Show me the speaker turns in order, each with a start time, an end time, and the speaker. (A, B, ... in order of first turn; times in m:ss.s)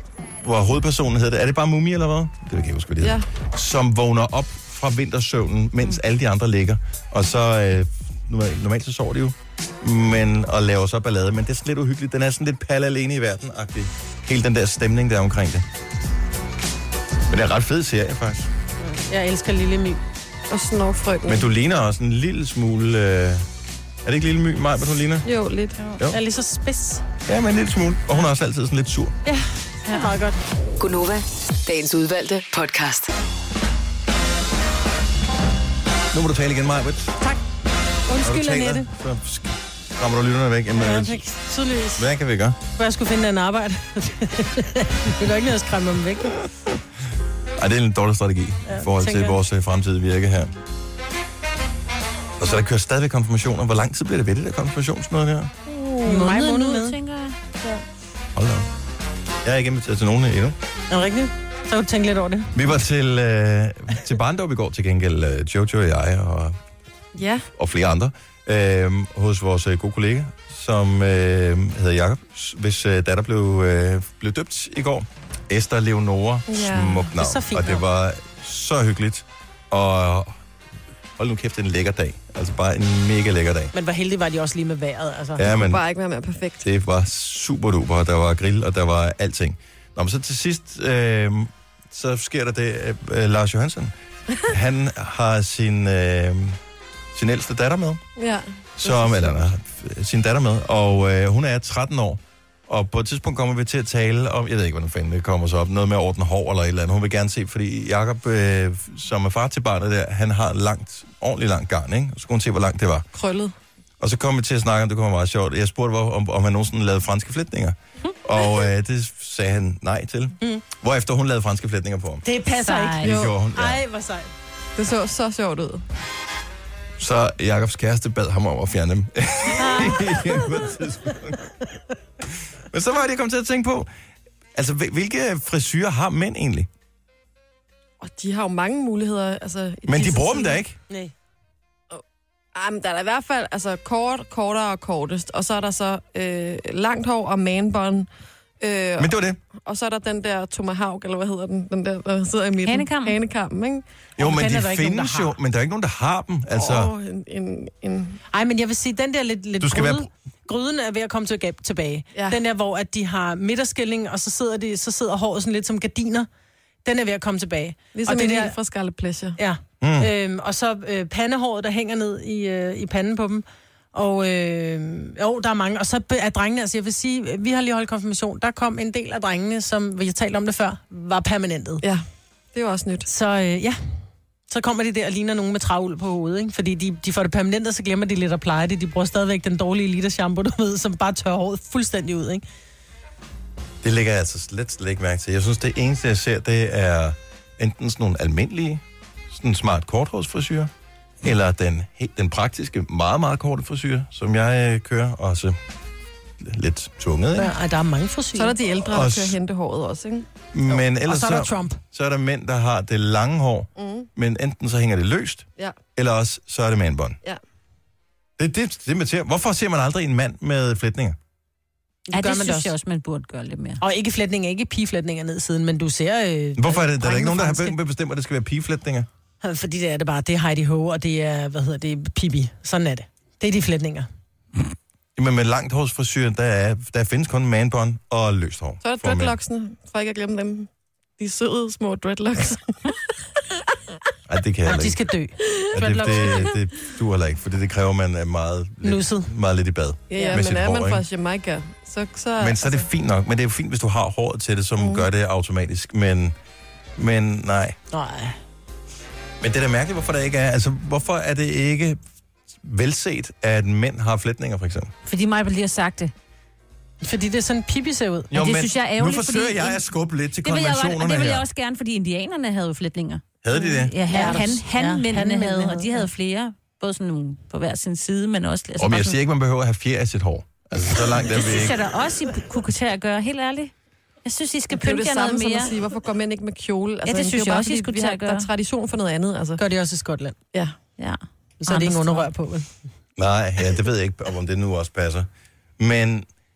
0:00.4-0:15.6 A
0:03.0-0:03.2 B
0:17.3-0:18.5 A
0:18.8-0:20.0 C
0:20.5-0:21.4 B
0:21.2-0:23.4 A
0:24.0-0:25.3 A
0:25.2-0:25.8 B
0:26.1-0:27.0 C
0:27.3-0:29.2 A
0:29.2-0:30.4 C
0:30.8-0:33.1 D
0:36.1-0:37.1 A
0:38.1-0:38.9 C
0:38.2-0:41.2 A
0:40.7-0:42.1 C
0:42.0-0:42.6 A
0:42.8-0:46.4 C
0:47.6-0:50.5 A
0:48.7-0:49.4 C
0:52.4-0:55.5 A
0:55.7-0:56.0 B
0:56.0-0:57.0 C
0:56.0-0:57.4 E
0:58.3-0:58.6 A
0:59.4-1:00.6 A
1:00.9-1:02.6 C
1:02.5-1:06.6 A
1:07.1-1:07.4 B
1:07.6-1:20.4 A
1:16.5-1:17.1 B
1:17.2-1:17.8 C
1:21.2-1:23.7 A
1:23.7-1:25.5 C
1:25.4-1:25.8 A
1:25.5-1:26.6 B
1:26.6-1:33.9 A
1:34.5-1:36.6 A
1:37.1-1:38.0 A
1:38.2-1:39.5 B
1:38.8-1:53.1 A
1:53.1-1:53.5 B
1:54.0-2:02.2 A
2:02.2-2:04.3 C
2:02.6-2:03.1 E
2:03.0-2:03.8 A
2:03.0-2:03.3 B
2:04.8-2:05.8 B
2:07.0-2:11.5 A
2:09.8-2:10.0 C
2:12.7-2:13.9 A
2:14.5-2:16.7 A
2:18.0-2:20.6 B
2:19.9-2:20.8 A
2:22.5-2:28.1 B
2:28.6-2:29.1 B
2:29.0-2:29.4 A
2:29.6-2:33.8 B
2:32.6-2:33.2 E
2:34.2-2:36.9 A
2:34.2-2:35.4 C
2:36.5-2:38.2 B
2:38.3-2:46.3 C
2:39.6-2:40.1 A
2:46.8-2:48.6 C
2:47.9-2:49.4 B
2:49.4-3:01.8 C
2:49.8-2:50.1 A
3:01.8-3:03.1 B
3:03.0-3:03.8 C
3:04.5-3:12.4 C
3:13.8-3:20.7 A
3:21.2-3:25.6 A
3:26.4-3:27.5 A
3:27.4-3:28.6 C
3:28.3-3:30.2 B
3:28.8-3:29.4 A
3:30.5-3:37.2 A
3:30.7-3:31.8 C
3:33.8-3:34.1 B
3:38.4-3:41.2 A
3:42.1-3:42.7 C
3:42.1-3:43.8 E
3:43.8-3:47.8 C
3:46.6-3:49.1 A
3:49.4-3:54.1 C
3:55.2-3:59.4 A
3:58.8-4:00.7 B
4:01.2-4:03.0 B
4:04.3-4:05.0 A
4:04.6-4:06.5 C
4:05.7-4:11.0 A
4:05.9-4:06.4 B
4:08.8-4:09.3 C
4:10.1-4:12.8 B
4:10.1-4:10.4 C
4:12.4-4:16.3 A
4:14.8-4:15.1 B
4:17.0-4:17.8 A
4:17.9-4:18.4 C
4:19.4-4:22.0 A
4:22.6-4:24.9 A
4:25.0-4:26.1 E
4:27.0-4:28.3 C
4:28.3-4:31.4 A
4:28.3-4:29.8 E
4:30.4-4:39.2 E
4:33.4-4:33.9 A
4:34.1-4:36.1 C
4:38.8-4:41.8 A
4:41.2-4:43.7 E
4:44.2-4:45.7 E
4:44.7-4:49.6 B
4:47.0-4:48.5 E
4:49.6-4:50.3 C
4:51.0-4:52.3 E
4:51.6-4:52.7 C
4:53.2-4:55.3 A
4:55.8-4:56.3 A